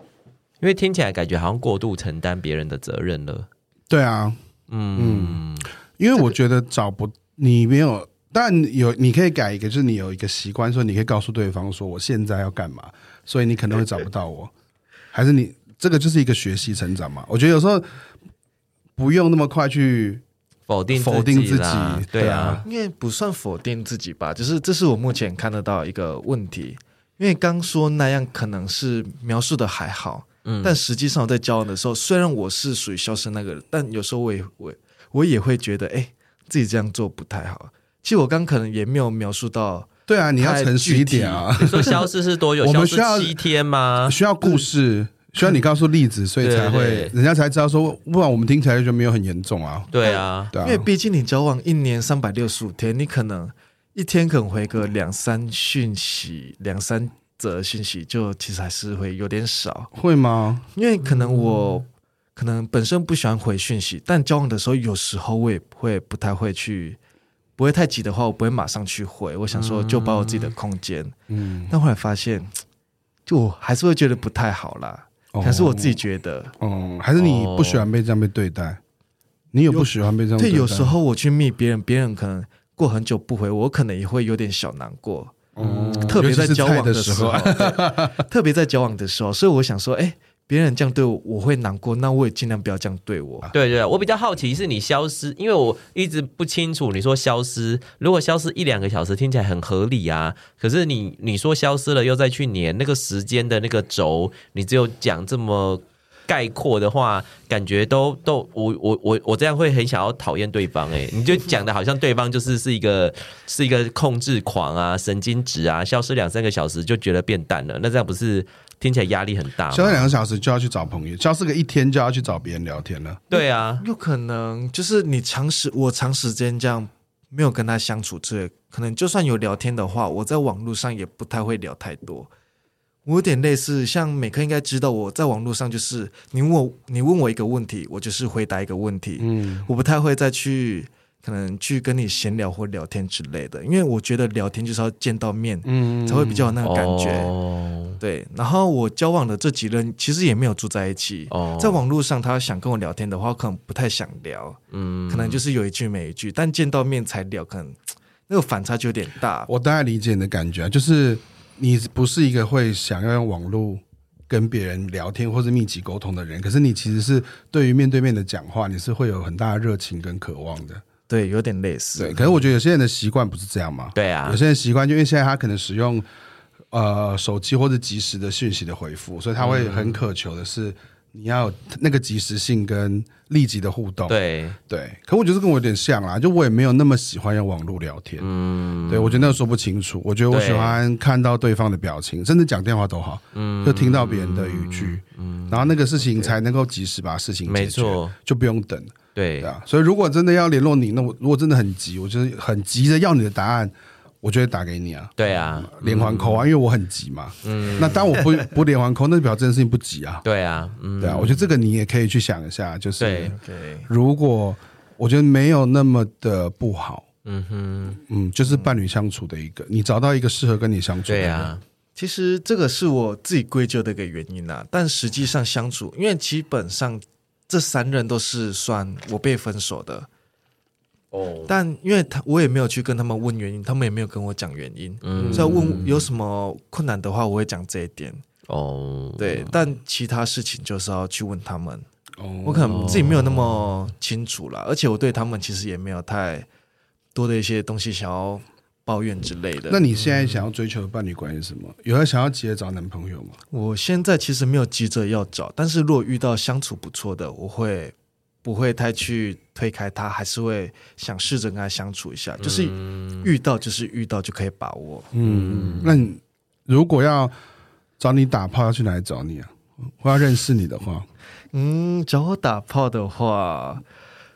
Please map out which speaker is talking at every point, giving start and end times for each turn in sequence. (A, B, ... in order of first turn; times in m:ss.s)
0:00.6-0:03.5 A
0:03.9-0:04.4 B
0:04.7-0:05.7 A
0:04.9-0:05.4 B
0:06.0-0:14.5 B
0:15.1-0:17.9 B
0:19.0-0:20.2 B
0:20.7-0:22.6 A
0:20.9-0:22.6 B
0:22.6-0:42.0 C
0:30.4-0:30.8 A
0:40.1-0:42.1 B
0:41.7-0:44.2 A
0:42.6-0:43.4 B
0:44.0-0:49.9 B
0:46.4-0:47.1 A
0:49.9-0:50.5 A
0:50.0-0:59.9 C
0:50.5-0:50.9 B
0:59.9-1:00.6 B
1:00.7-1:07.0 C
1:07.6-1:11.1 C
1:09.5-1:10.5 A
1:11.3-1:11.7 B
1:11.7-1:12.6 C
1:13.3-1:16.5 C
1:15.3-1:16.0 B
1:16.6-1:18.8 B
1:17.2-1:17.9 A
1:19.5-1:20.9 B
1:19.7-1:25.4 C
1:25.6-1:28.2 B
1:25.6-1:26.2 A
1:26.0-1:33.5 C
1:33.5-2:00.2 A
1:59.7-2:03.2 B
2:03.3-2:03.8 A
2:03.3-2:12.3 C
2:13.0-2:27.4 C
2:19.2-2:19.7 B
2:25.6-2:26.5 B
2:26.6-2:28.0 A
2:28.0-2:39.5 C
2:31.3-2:31.8 A
2:34.7-2:35.4 A
2:39.5-2:50.8 B
2:51.1-2:52.4 C
2:52.0-2:56.0 B
2:53.9-2:54.4 A
2:56.7-3:04.2 B
2:59.4-3:00.0 A
3:04.1-3:04.6 A
3:04.7-3:08.3 B
3:08.2-3:09.4 A
3:08.9-3:30.2 B
3:10.3-3:10.8 A
3:13.3-3:16.3 A
3:17.5-3:18.1 A
3:19.1-3:19.5 A
3:25.2-3:26.5 A
3:27.4-3:28.3 A
3:30.2-3:31.5 A
3:31.0-3:33.4 B
3:33.0-3:33.3 A
3:33.2-3:33.9 C
3:33.9-3:37.0 B
3:37.2-3:38.0 A
3:38.1-3:41.6 B
3:41.1-3:41.6 A
3:42.0-3:50.1 C
3:51.1-3:51.5 A
3:51.5-3:58.2 C
3:55.0-3:56.1 A
3:55.2-3:55.8 B
3:58.5-3:59.6 A
3:59.2-4:01.9 C
4:02.2-4:03.0 B
4:02.4-4:06.5 C
4:02.7-4:03.7 A
4:07.1-4:09.9 C
4:09.7-4:13.4 B
4:09.9-4:10.4 A
4:13.5-4:25.1 C
4:22.4-4:23.3 A
4:25.1-4:27.3 B
4:25.2-4:26.0 A
4:28.0-4:31.0 B
4:31.5-4:33.8 C